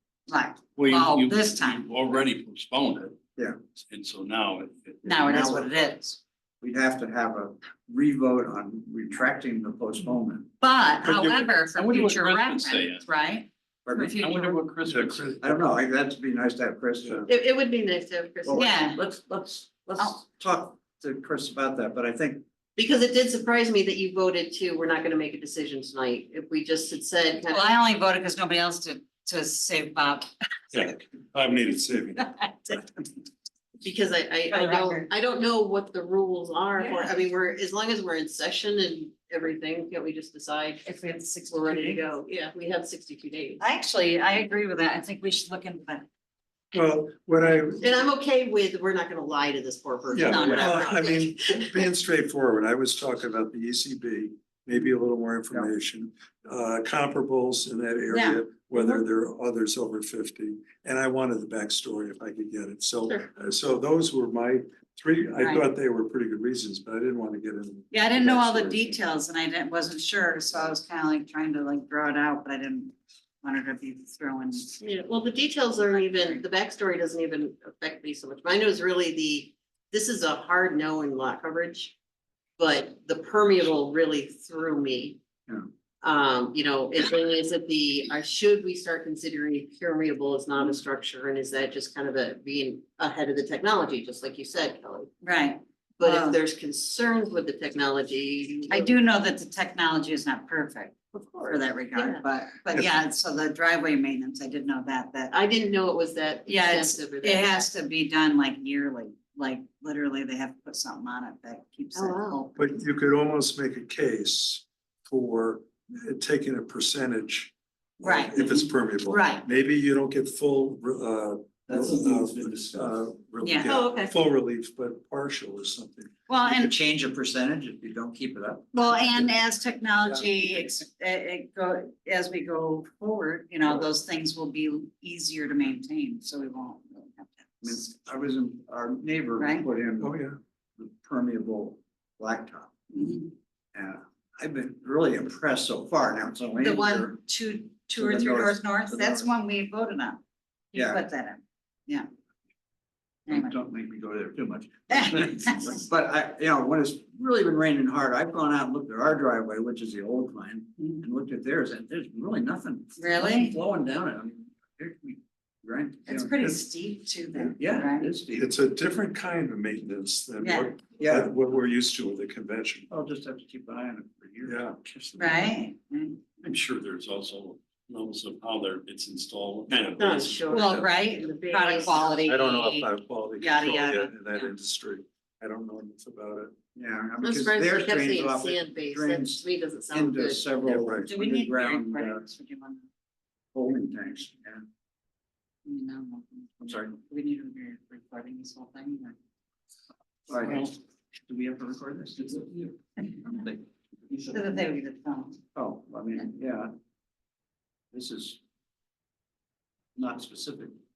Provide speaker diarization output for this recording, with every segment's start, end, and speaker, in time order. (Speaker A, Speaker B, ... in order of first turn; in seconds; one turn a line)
Speaker A: 0.3-1.9
Speaker B: 0.8-3.2
Speaker B: 3.8-5.4
Speaker C: 5.0-5.7
Speaker A: 5.0-6.2
Speaker C: 6.6-10.5
Speaker A: 10.6-13.5
Speaker B: 11.0-13.1
Speaker C: 13.9-17.3
Speaker B: 13.9-15.4
Speaker D: 14.9-15.6
Speaker E: 17.3-18.7
Speaker C: 18.4-22.4
Speaker A: 18.5-19.0
Speaker E: 22.8-27.7
Speaker A: 27.4-30.3
Speaker D: 30.7-32.2
Speaker A: 32.2-32.9
Speaker E: 33.8-40.9
Speaker A: 34.5-35.1
Speaker A: 36.8-37.2
Speaker A: 40.8-42.0
Speaker E: 41.5-43.6
Speaker A: 43.6-46.1
Speaker D: 46.7-48.0
Speaker E: 47.8-51.8
Speaker D: 50.1-69.0
Speaker A: 50.1-51.0
Speaker C: 50.4-50.7
Speaker A: 58.1-58.4
Speaker A: 65.4-65.7
Speaker A: 67.9-74.8
Speaker E: 74.8-82.0
Speaker A: 75.8-76.4
Speaker E: 82.6-85.2
Speaker E: 86.0-95.1
Speaker A: 95.2-96.4
Speaker E: 96.0-98.9
Speaker A: 98.7-105.3
Speaker E: 101.5-102.3
Speaker E: 105.3-107.7
Speaker A: 106.5-112.6
Speaker E: 112.0-112.4
Speaker D: 112.6-126.1
Speaker A: 118.0-119.5
Speaker C: 121.7-123.0
Speaker A: 123.4-123.7
Speaker E: 123.7-124.1
Speaker A: 126.3-126.8
Speaker C: 126.5-129.3
Speaker A: 128.7-137.8
Speaker C: 137.6-140.2
Speaker A: 139.4-139.7
Speaker D: 140.0-140.4
Speaker C: 140.8-142.8
Speaker A: 142.9-143.3
Speaker C: 143.7-147.2
Speaker A: 146.6-150.2
Speaker C: 148.0-149.3
Speaker A: 150.7-152.1
Speaker C: 150.7-151.0
Speaker A: 153.3-153.6
Speaker C: 153.3-166.6
Speaker A: 155.0-155.8
Speaker A: 163.0-163.5
Speaker A: 166.1-168.1
Speaker C: 167.6-168.6
Speaker D: 168.3-172.9
Speaker A: 170.4-170.8
Speaker C: 171.0-171.3
Speaker C: 172.9-175.5
Speaker D: 174.4-174.8
Speaker A: 175.2-176.2
Speaker B: 176.4-180.4
Speaker D: 179.7-180.2
Speaker E: 180.0-182.3
Speaker A: 180.5-184.5
Speaker D: 182.2-186.6
Speaker C: 186.8-192.2
Speaker E: 187.2-190.5
Speaker D: 190.7-191.1
Speaker A: 190.8-192.8
Speaker C: 193.5-194.7
Speaker A: 195.7-199.2
Speaker C: 196.6-196.9
Speaker C: 200.3-200.8
Speaker C: 201.3-203.6
Speaker A: 204.3-205.4
Speaker C: 205.5-206.7
Speaker C: 207.9-208.4
Speaker C: 210.0-210.8